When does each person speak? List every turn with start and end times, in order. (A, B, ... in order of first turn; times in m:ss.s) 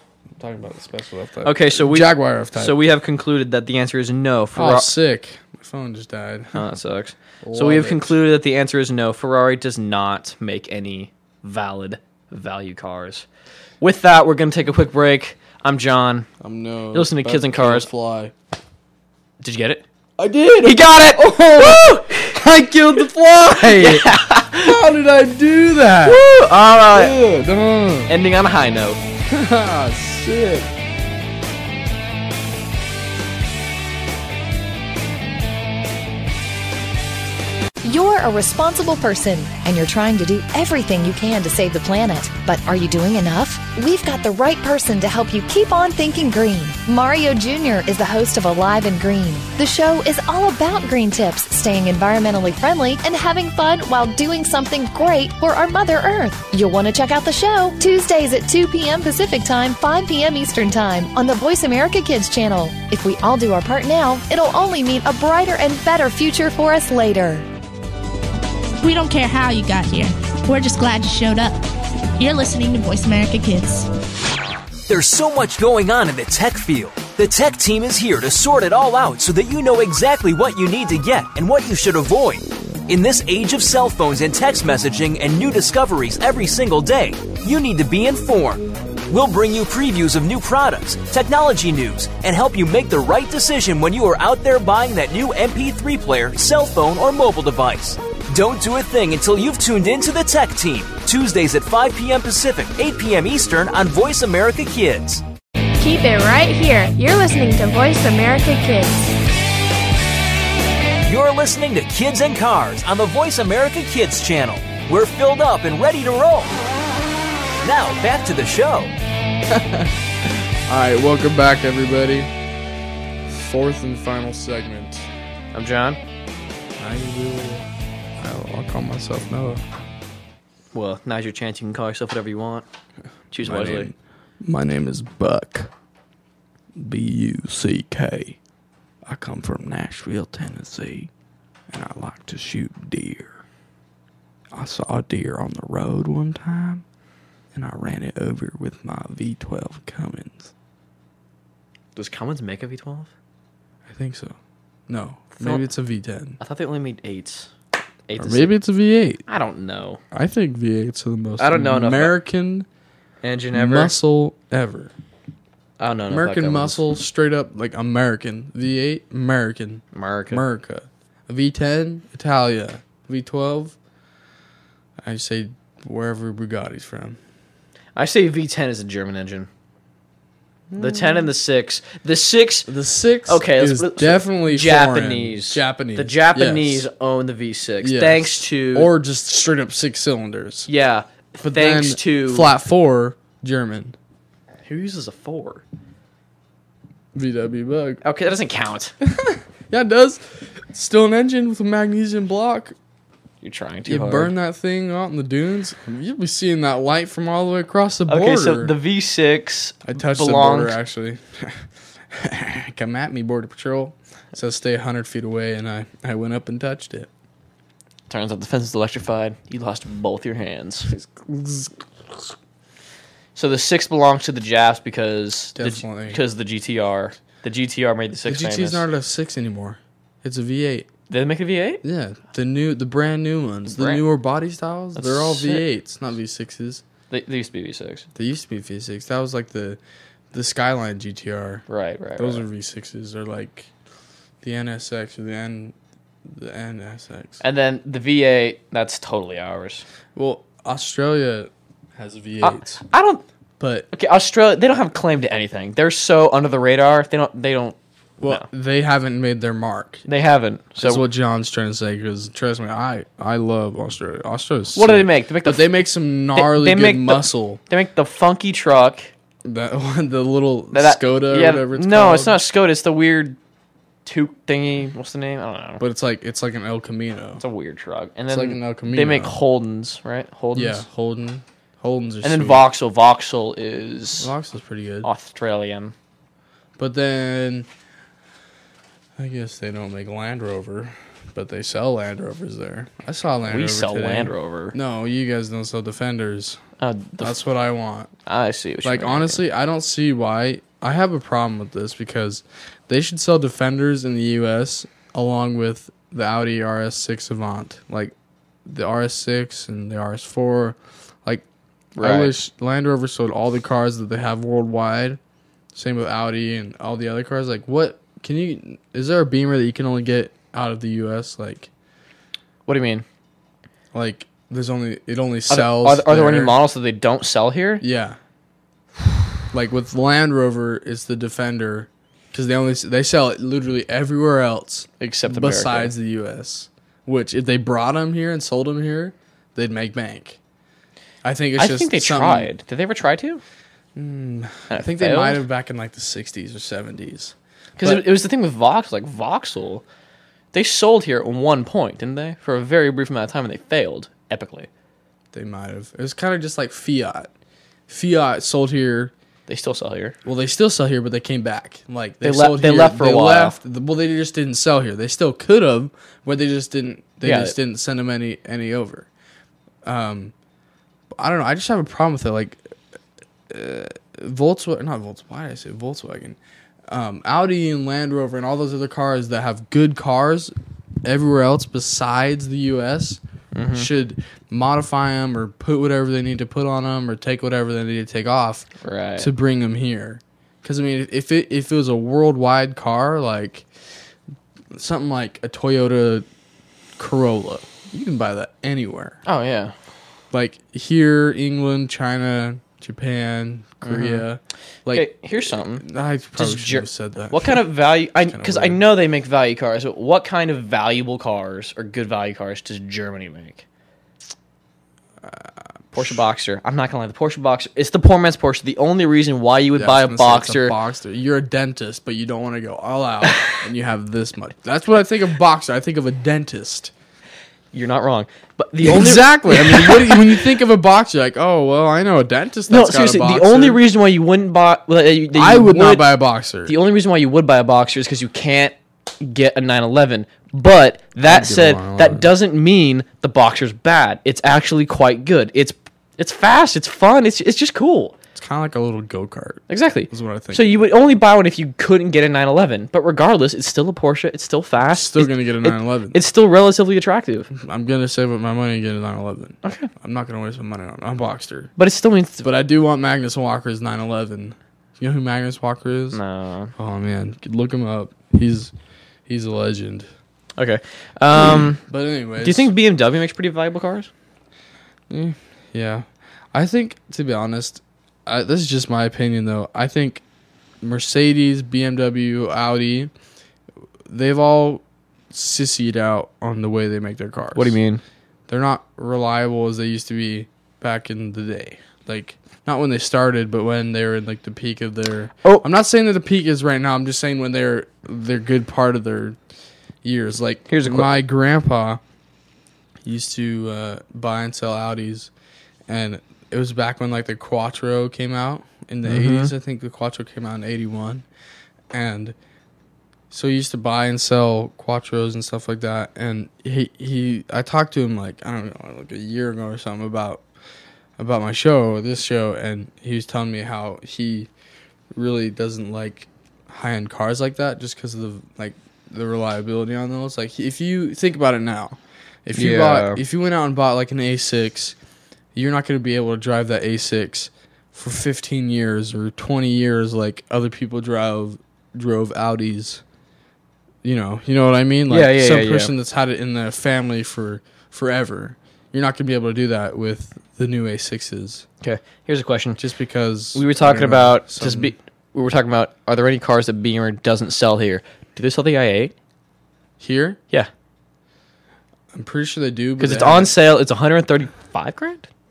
0:00.4-0:02.7 A
0:01.4-0:04.9 B
0:04.6-0:06.6 A
0:06.5-0:13.3 B
0:07.4-0:08.2 A
0:13.8-0:16.3 B
0:16.4-0:18.3 A
0:16.9-0:17.9 B
0:19.4-0:19.8 B
0:20.2-0:26.2 A
0:20.6-0:22.4 B
0:23.6-0:24.7 B
0:26.0-0:27.2 B
0:26.9-0:28.2 A
0:28.1-0:29.0 B
0:29.3-0:30.7 A
0:37.8-1:07.5 C
1:08.8-1:11.6 D
1:12.2-1:13.9 D
1:14.9-1:45.2 E
1:45.8-1:49.1 F
1:51.0-1:56.6 E
1:57.6-1:58.9 E
1:59.5-2:02.3 A
2:03.3-2:05.1 A
2:05.5-2:06.0 B
2:06.8-2:07.7 A
2:08.2-2:09.6 A
2:10.7-2:12.6 B
2:13.3-2:13.9 B
2:13.4-2:15.7 A
2:16.8-2:18.4 A
2:19.0-2:21.1 A
2:21.7-2:23.4 A
2:24.5-2:26.8 A
2:27.5-2:30.5 A
2:32.0-2:33.1 B
2:33.9-2:34.3 A
2:34.9-2:36.4 A
2:35.4-2:35.7 B
2:36.4-2:37.5 B
2:38.1-2:38.5 B
2:38.2-2:39.2 A
2:39.3-2:40.0 B
2:40.1-2:42.7 A
2:41.4-2:42.1 B
2:43.2-2:43.9 B
2:43.5-2:44.9 A
2:45.8-2:46.8 B
2:46.1-2:53.7 A
2:49.9-2:50.4 B
2:55.0-2:57.2 A
2:58.0-2:59.5 B
3:00.7-3:01.3 A
3:00.8-3:02.7 B
3:02.7-3:06.9 A
3:03.3-3:08.9 B
3:07.8-3:10.7 A
3:10.7-3:12.5 B
3:11.4-3:14.0 A
3:14.6-3:15.6 B
3:17.1-3:18.0 A
3:18.0-3:18.9 B
3:19.0-3:22.7 A
3:23.4-3:24.3 B
3:23.9-3:28.7 A
3:28.1-3:30.8 B
3:29.8-3:37.1 A
3:38.1-3:40.9 B
3:40.9-3:42.3 A
3:43.4-3:48.8 B
3:45.6-3:46.2 A
3:48.3-3:50.9 A
3:51.1-3:51.8 B
3:51.8-3:56.8 A
3:53.7-3:54.0 B
3:55.0-3:55.7 B
3:57.1-3:58.0 B
3:58.2-3:59.8 A
4:00.3-4:01.6 A
4:01.7-4:02.4 B
4:02.2-4:03.7 A
4:04.4-4:05.7 A
4:06.3-4:07.4 A
4:07.4-4:09.8 B
4:10.1-4:12.8 A
4:12.4-4:13.2 B
4:13.6-4:13.9 A
4:13.9-4:17.8 B
4:18.2-4:20.0 A
4:20.1-4:21.0 B
4:20.8-4:27.6 A
4:24.7-4:25.7 B
4:26.3-4:29.1 B
4:29.4-4:32.4 A
4:30.7-4:33.4 B
4:34.0-4:35.8 B
4:35.8-4:37.4 A
4:37.4-4:40.8 B
4:38.3-4:39.4 A
4:40.6-4:42.6 A
4:42.2-4:44.3 B
4:44.2-4:45.1 A
4:45.0-4:45.9 B
4:46.8-4:47.7 A
4:49.2-4:56.6 A
4:53.5-4:54.8 B
4:56.8-4:57.4 B
4:57.2-4:58.1 A
4:58.3-4:59.4 B
4:58.8-5:08.1 A
5:08.7-5:11.4 A
5:12.0-5:12.4 B
5:12.0-5:15.2 A
5:15.7-5:21.7 A
5:22.7-5:23.0 B
5:23.9-5:26.6 A
5:25.5-5:27.8 B
5:27.8-5:28.2 A
5:29.5-5:40.4 A
5:35.0-5:35.9 B
5:41.2-5:42.5 A
5:41.6-5:43.4 B
5:44.0-5:48.0 A
5:44.7-5:45.4 B
5:47.8-5:49.8 B
5:50.5-5:54.7 B
5:55.3-5:57.3 A
5:57.9-5:59.1 A
5:59.5-6:00.2 B
6:00.2-6:09.1 A
6:02.2-6:03.6 B
6:07.2-6:07.6 B
6:09.8-6:10.3 A
6:11.1-6:12.7 A
6:13.5-6:16.4 A
6:16.9-6:23.2 A
6:23.5-6:23.9 B
6:23.7-6:33.7 A
6:28.8-6:29.3 B
6:34.7-6:36.2 A
6:37.0-6:39.2 A
6:39.2-6:39.7 B
6:40.3-6:48.8 A
6:43.8-6:44.3 B
6:44.9-6:45.8 B
6:46.3-6:53.6 B
6:55.2-6:56.2 A
6:55.9-7:00.8 B
6:59.8-7:06.9 A
7:07.7-7:10.4 B
7:08.8-7:13.8 A
7:12.7-7:28.1 B
7:15.3-7:16.8 A
7:21.2-7:22.3 A
7:28.3-7:30.8 A
7:29.7-7:37.5 B
7:34.9-7:36.2 A
7:37.5-7:41.7 A
7:39.6-7:39.9 B
7:41.8-7:42.4 B
7:42.4-7:46.2 A
7:46.1-7:46.7 B
7:46.8-7:48.7 A
7:49.3-7:50.1 A
7:50.6-7:51.8 B
7:51.9-7:52.7 A
7:52.4-7:54.1 B
7:55.1-8:00.2 A
8:00.8-8:03.1 A
8:04.1-8:07.8 A
8:07.6-8:08.0 B
8:08.5-8:19.4 A
8:20.0-8:22.0 A
8:20.7-8:21.1 B
8:23.0-8:25.3 A
8:25.9-8:31.2 A
8:29.0-8:29.5 B
8:31.9-8:32.3 A
8:33.3-8:40.4 A
8:41.2-8:44.5 A
8:45.1-8:55.0 A
8:52.6-8:53.2 B
8:55.5-9:03.0 A
9:04.0-9:11.7 A
9:05.1-9:05.9 B
9:11.8-9:12.8 B
9:12.8-9:14.9 A
9:13.5-9:19.1 B
9:20.0-9:20.4 A
9:22.1-9:23.6 A
9:23.0-9:25.3 B